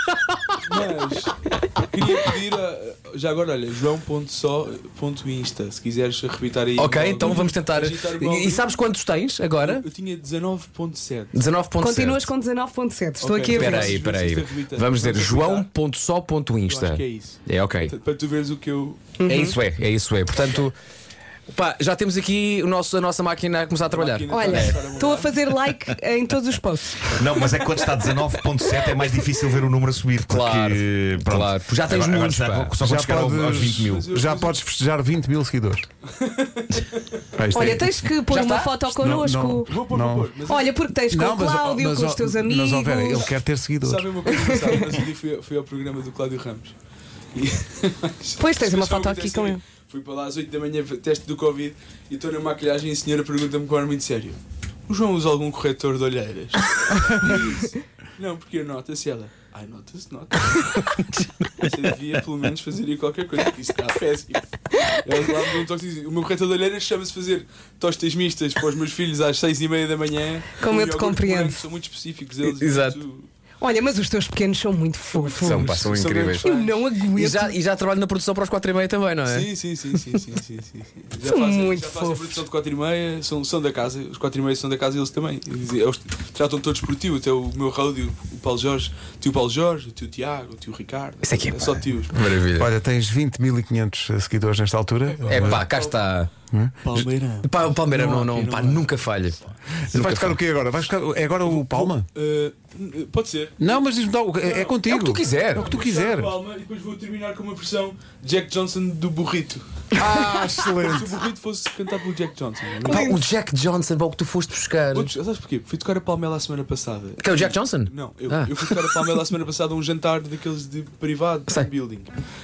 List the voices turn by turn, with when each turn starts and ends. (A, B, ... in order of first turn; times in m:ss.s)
0:00.6-0:08.7 A
0:06.8-0:09.8 B
0:09.6-0:11.4 A
0:11.3-0:12.3 B
0:11.8-0:14.0 C
0:13.2-0:15.7 A
0:13.5-0:17.9 B
0:16.6-0:19.1 A
0:19.2-0:19.6 C
0:19.2-0:20.8 B
0:21.5-0:24.8 B
0:23.9-0:25.3 A
0:24.3-0:27.2 C
0:27.1-0:34.1 D
0:30.2-0:32.8 B
0:32.8-0:35.8 E
0:33.5-0:34.6 A
0:36.1-0:37.2 A
0:37.4-0:38.1 E
0:37.5-0:39.7 C
0:38.3-0:39.0 A
0:38.9-0:40.3 E
0:39.6-0:40.8 A
0:40.4-0:43.3 C
0:41.1-0:44.1 E
0:43.2-0:46.8 A
0:44.2-0:44.9 C
0:47.3-1:13.3 A
0:48.4-0:49.6 C
1:10.6-1:11.6 C
1:12.4-1:13.0 B
1:13.6-1:15.8 C
1:15.2-1:16.9 A
1:15.4-1:16.5 B
1:16.3-1:17.6 C
1:17.1-1:19.5 B
1:19.2-1:32.2 A
1:21.2-1:22.4 C
1:31.2-1:32.7 B
1:32.6-1:35.6 E
1:35.0-1:36.1 A
1:35.3-1:36.3 B
1:36.5-1:36.7 E
1:36.8-1:39.0 A
1:36.9-1:39.4 B
1:39.9-1:42.0 E
1:39.9-1:40.4 B
1:41.4-1:43.8 A
1:43.6-1:46.3 E
1:44.4-1:44.8 A
1:44.9-1:45.7 B
1:45.4-1:49.6 A
1:49.9-1:51.2 E
1:50.7-1:53.1 A
1:52.8-1:53.2 C
1:52.9-1:55.1 B
1:54.9-2:02.1 A
1:57.2-1:59.1 B